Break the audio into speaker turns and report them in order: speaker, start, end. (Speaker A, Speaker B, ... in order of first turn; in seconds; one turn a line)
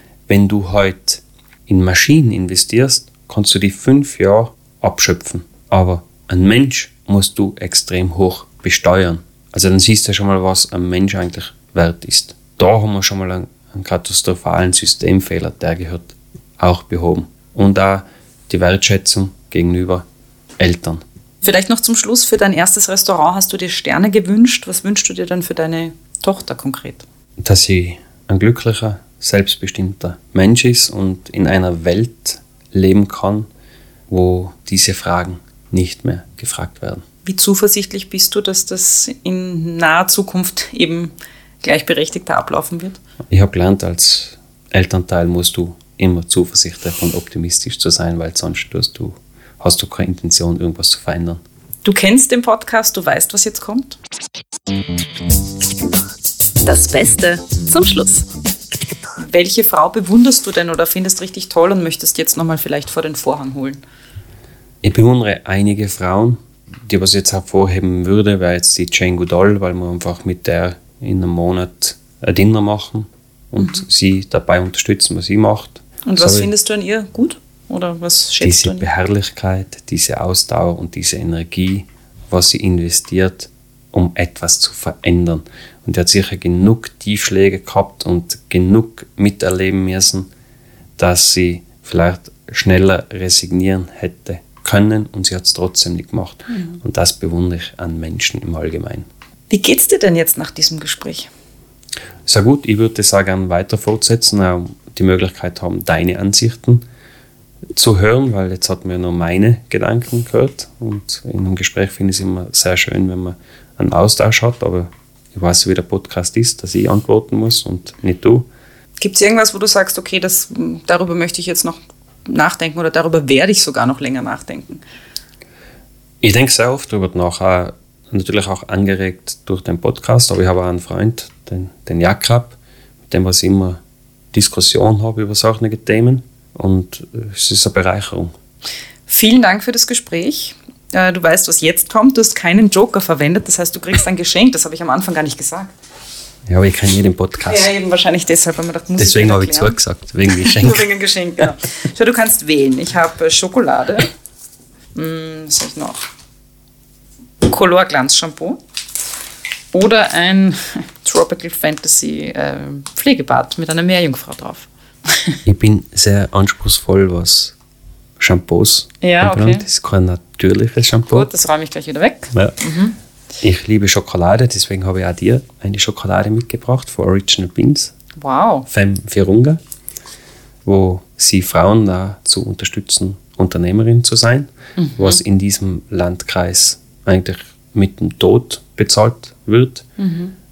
Speaker A: 0.3-20.0
Speaker A: 20.6-21.0
Speaker B: 21.4-27.0
Speaker A: 27.4-33.5
Speaker A: 34.1-37.0
Speaker B: 37.2-43.0
Speaker A: 43.3-51.4
Speaker B: 51.8-54.0
Speaker B: 56.6-58.3
Speaker B: 59.2-63.8
Speaker A: 64.8-76.5
Speaker B: 76.0-78.9
Speaker A: 78.4-90.3
Speaker A: 91.0-99.1
Speaker B: 99.5-101.3
Speaker A: 102.2-106.8
Speaker A: 107.7-118.5
Speaker B: 119.0-124.8
Speaker A: 126.2-132.6
Speaker A: 133.1-133.8
Speaker A: 134.3-138.3
Speaker B: 139.1-145.7
Speaker A: 146.5-147.7
Speaker B: 147.4-149.8
Speaker A: 149.0-150.9
Speaker B: 150.3-154.1
Speaker B: 154.9-156.0
Speaker B: 157.4-158.6
Speaker B: 159.7-165.3
Speaker A: 165.4-167.5
Speaker A: 168.2-171.3
Speaker B: 169.0-169.6
Speaker B: 171.1-172.9
Speaker A: 172.3-172.6
Speaker A: 173.4-177.9
Speaker B: 178.2-178.7
Speaker A: 178.7-179.6
Speaker A: 180.6-189.8
Speaker B: 184.8-185.2
Speaker B: 190.0-190.3